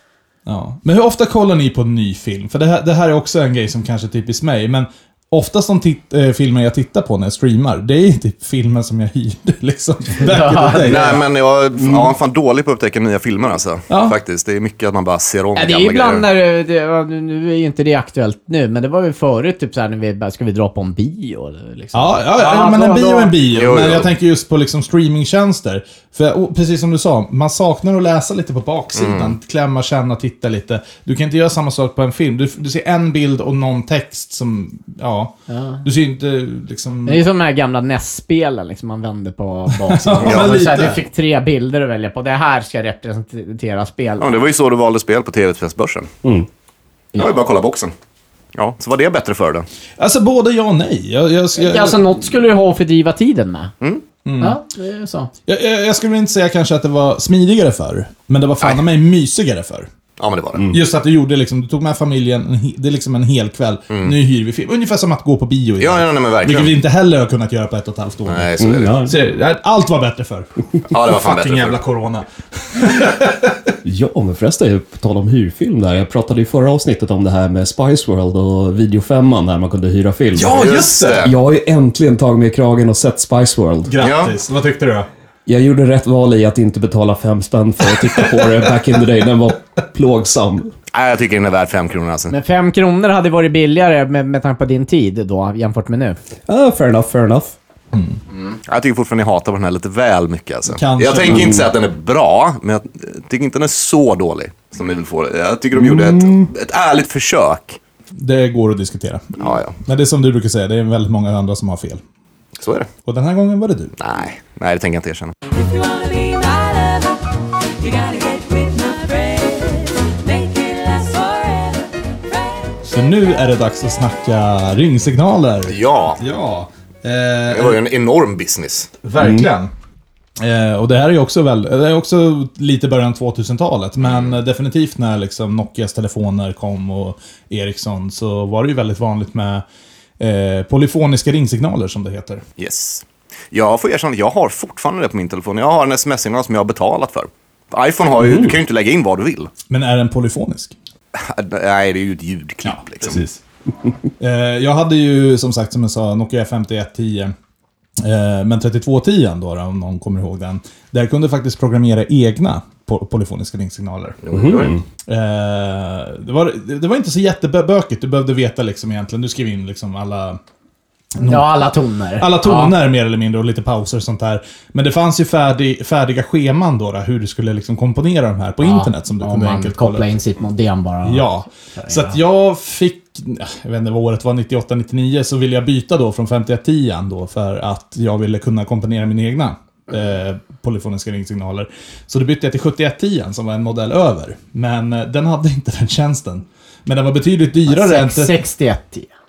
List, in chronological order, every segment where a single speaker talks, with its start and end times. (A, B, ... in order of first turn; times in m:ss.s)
0:00.4-0:11.2 A
0:10.2-0:11.2 B
0:10.8-0:16.2 C
0:11.8-0:12.1 D
0:13.9-0:14.2 A
0:15.6-0:23.3 B
0:21.9-0:37.2 A
0:23.5-0:24.1 C
0:28.9-0:29.4 C
0:35.5-0:35.8 B
0:37.0-0:44.4 B
0:39.8-0:41.0 A
0:40.2-0:40.5 C
0:44.2-0:46.1 C
0:47.2-0:47.9 C
0:48.5-0:49.6 C
0:50.0-0:52.0 A
0:51.6-0:53.7 B
0:54.2-0:54.6 A
0:54.4-0:55.3 B
0:55.5-0:59.9 A
1:00.2-1:00.6 C
1:00.5-1:00.8 D
1:00.7-1:08.5 A
1:03.9-1:04.1 C
1:05.8-1:06.8 C
1:08.3-1:09.0 C
1:08.6-1:09.2 D
1:09.0-1:13.5 A
1:10.9-1:11.8 C
1:13.8-1:23.9 D
1:20.3-1:21.2 A
1:20.5-1:21.3 C
1:23.9-1:25.1 A
1:24.0-1:24.3 C
1:25.4-1:30.7 D
1:28.0-1:28.7 A
1:30.9-1:32.3 C
1:32.3-1:36.2 B
1:36.5-1:37.5 D
1:37.9-1:38.2 A
1:38.6-1:47.8 C
1:40.7-1:41.6 A
1:41.2-1:41.7 D
1:45.7-1:46.5 D
1:48.2-1:52.0 A
1:49.4-1:49.8 C
1:52.6-1:52.9 C
1:53.0-1:53.9 A
1:54.0-1:55.3 C
1:55.5-1:57.2 E
1:57.8-2:02.6 E
2:02.8-2:07.8 A
2:05.7-2:06.2 C
2:07.5-2:08.9 C
2:09.0-2:09.7 A
2:09.2-2:09.5 D
2:10.4-2:19.6 A
2:14.0-2:14.4 C
2:20.2-2:22.4 A
2:22.6-2:29.5 C
2:28.2-2:28.6 D
2:29.7-2:30.7 A
2:31.1-2:33.2 C
2:32.6-2:33.4 A
2:34.2-2:37.3 A
2:38.0-2:44.2 A
2:44.2-2:44.7 C
2:44.3-2:44.8 D
2:45.1-2:50.4 A
2:51.2-3:00.1 A
2:51.2-2:52.8 B
2:58.6-3:02.2 B
3:01.0-3:18.4 A
3:17.7-3:19.1 B